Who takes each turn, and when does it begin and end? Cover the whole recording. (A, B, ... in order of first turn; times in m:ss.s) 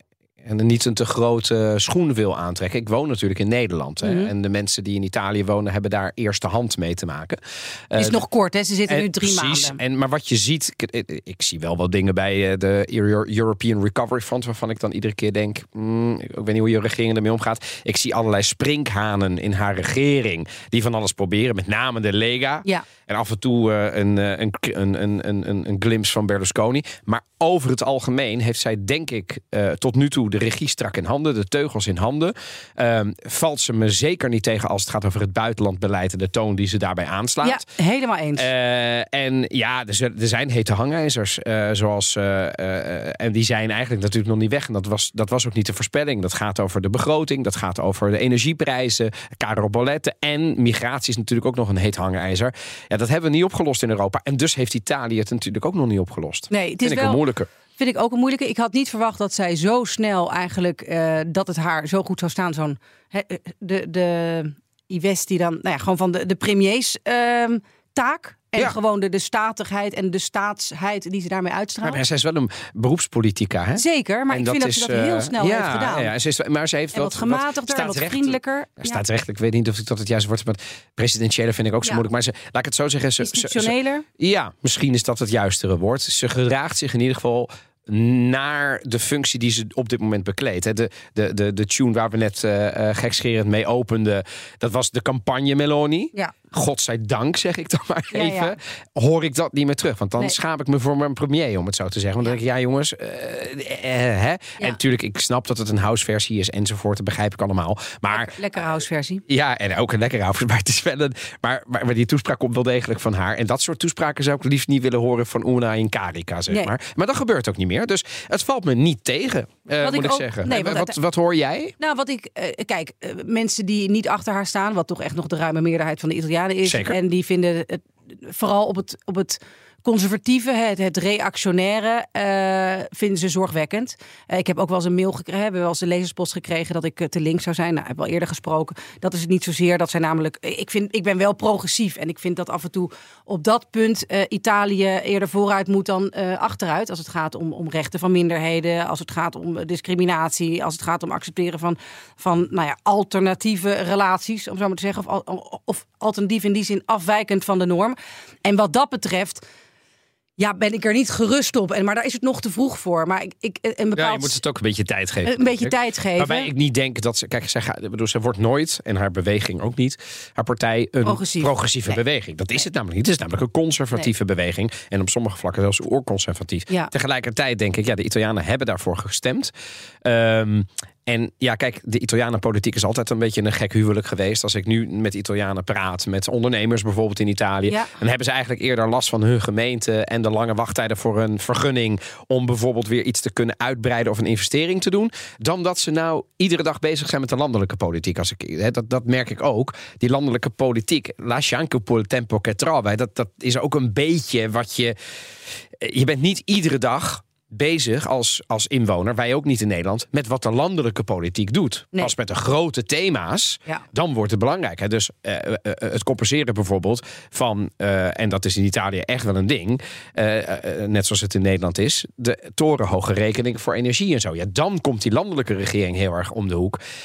0:00.4-0:08.2 A
0:04.0-0:04.3 B
0:08.0-0:09.8 B
0:08.9-0:37.7 A
0:37.4-0:38.5 B
0:38.4-0:57.5 A
0:56.5-0:57.2 B
0:57.8-1:12.0 B
1:11.8-2:01.7 A
1:13.7-1:16.1 B
1:16.9-1:19.0 B
1:23.2-1:24.0 B
1:38.1-1:38.5 B
1:48.1-1:49.2 B
1:56.5-1:56.7 B
1:59.8-2:01.0 B
2:01.8-2:39.4 B
2:06.6-2:07.0 A
2:40.4-2:44.4 B
2:43.9-2:59.5 A
2:45.2-2:46.5 B
2:51.0-2:51.5 B
3:00.0-3:25.0 A
3:07.7-3:07.9 B
3:25.7-3:46.8 A